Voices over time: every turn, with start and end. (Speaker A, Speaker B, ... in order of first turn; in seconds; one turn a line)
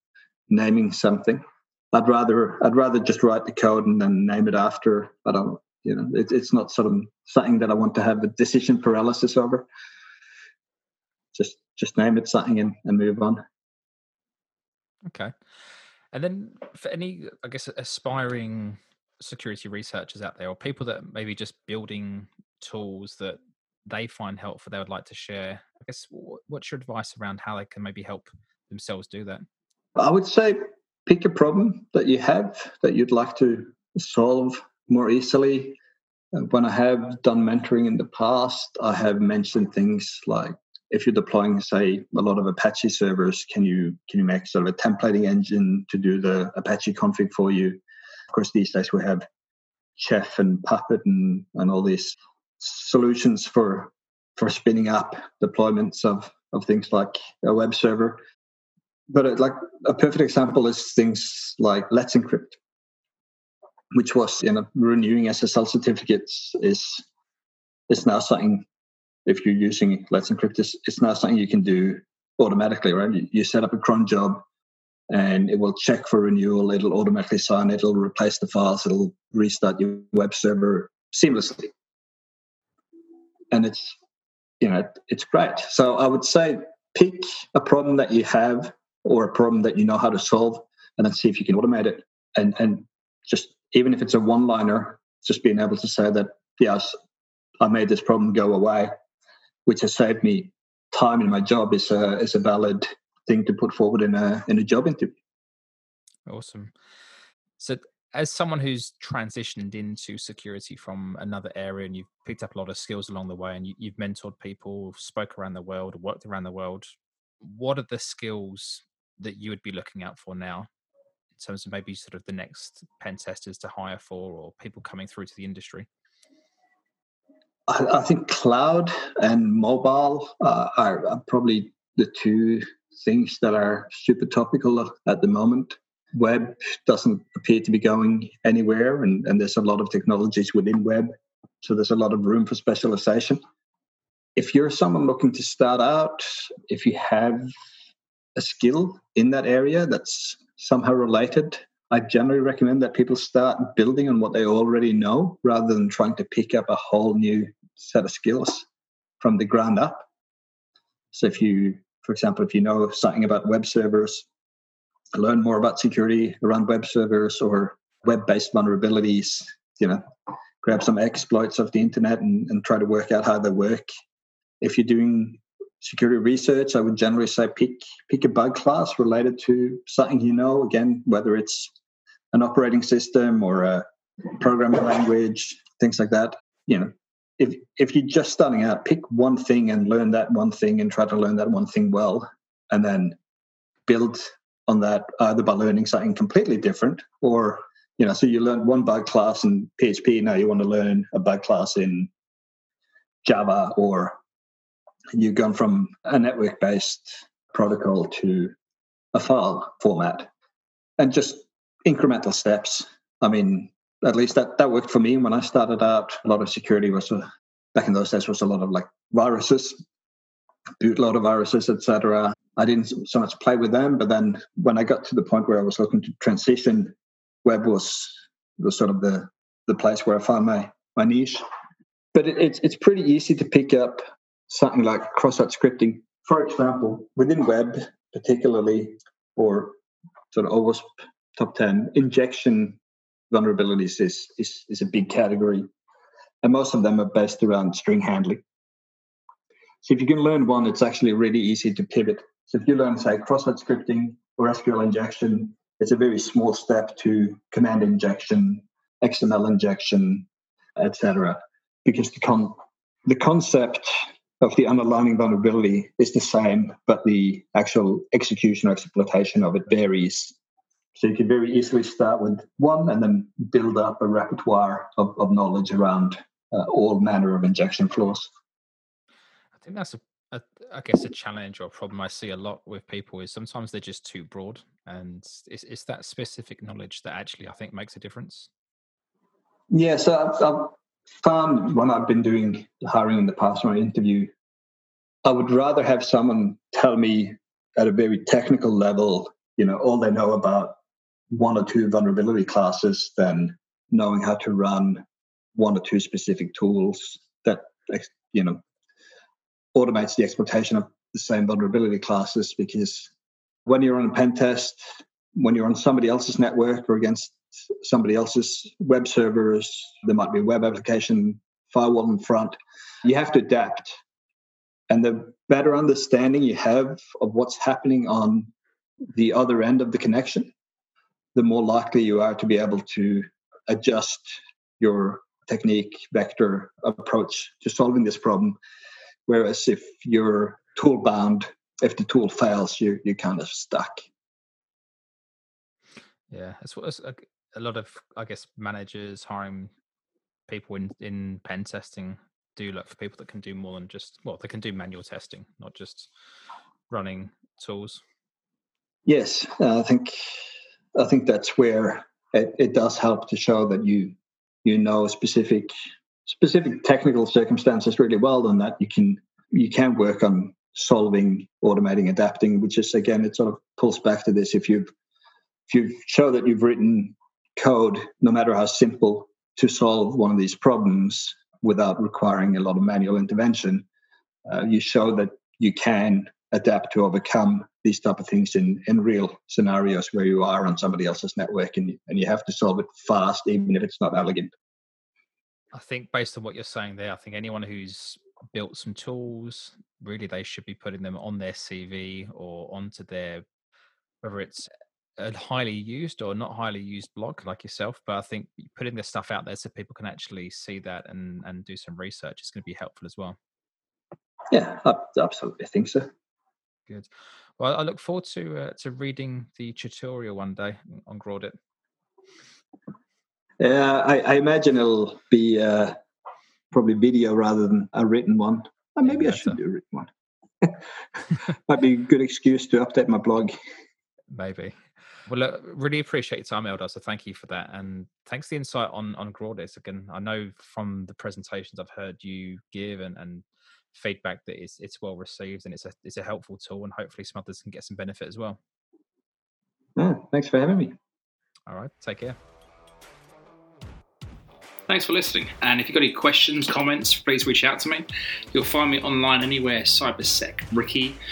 Speaker A: 0.5-9.7
Speaker A: 11.3-13.4
Speaker B: 15.1-15.3
Speaker B: 16.1-29.4
Speaker A: 29.9-35.8
Speaker A: 36.3-47.8
Speaker A: 48.3-49.3
Speaker A: 50.0-58.2
Speaker A: 59.1-62.6
Speaker A: 63.9-67.0
Speaker A: 67.9-68.7
Speaker A: 69.3-74.4
Speaker A: 75.1-81.7
Speaker A: 83.5-84.0
Speaker A: 84.6-97.0
Speaker A: 97.6-98.9
Speaker A: 99.7-105.1
Speaker B: 106.3-106.7
Speaker B: 107.6-116.9
Speaker B: 117.4-120.7
Speaker B: 121.4-125.9
Speaker A: 127.7-141.1
Speaker A: 141.6-143.4
Speaker A: 144.4-147.5
Speaker A: 148.4-158.7
Speaker A: 159.2-160.1
Speaker A: 161.1-164.3
Speaker A: 165.1-170.0
Speaker A: 170.6-173.9
Speaker A: 174.6-181.7
Speaker A: 182.3-193.2
Speaker A: 193.9-202.1
Speaker A: 203.2-204.2
Speaker A: 205.1-208.5
Speaker A: 209.1-210.3
Speaker A: 211.0-219.8
Speaker A: 220.8-231.4
Speaker A: 232.1-239.8
Speaker A: 240.3-242.8
Speaker A: 243.3-245.7
Speaker A: 246.4-248.4
Speaker A: 249.8-260.3
Speaker A: 260.8-270.4
Speaker A: 270.9-278.3
Speaker B: 279.6-288.5
Speaker A: 289.7-294.3
Speaker A: 295.2-300.8
Speaker A: 301.3-305.0
Speaker A: 305.6-308.6
Speaker A: 309.7-313.1
Speaker A: 313.6-323.9
Speaker A: 324.9-328.5
Speaker A: 329.1-330.5
Speaker A: 331.4-338.6
Speaker A: 339.3-344.1
Speaker B: 346.3-349.7
Speaker B: 350.5-356.1
Speaker B: 356.9-358.0
Speaker A: 359.1-360.4
Speaker A: 360.9-365.7
Speaker A: 366.3-374.9
Speaker A: 375.7-383.9
Speaker A: 384.4-394.5
Speaker B: 395.7-403.4
Speaker B: 404.2-413.4
Speaker A: 414.5-416.1
Speaker B: 417.6-421.6
Speaker A: 423.6-426.0
Speaker A: 426.7-430.1
Speaker B: 429.1-429.6
Speaker A: 430.6-433.5
Speaker B: 434.3-448.6
Speaker A: 449.9-450.9
Speaker B: 451.7-452.4
Speaker C: 454.9-461.2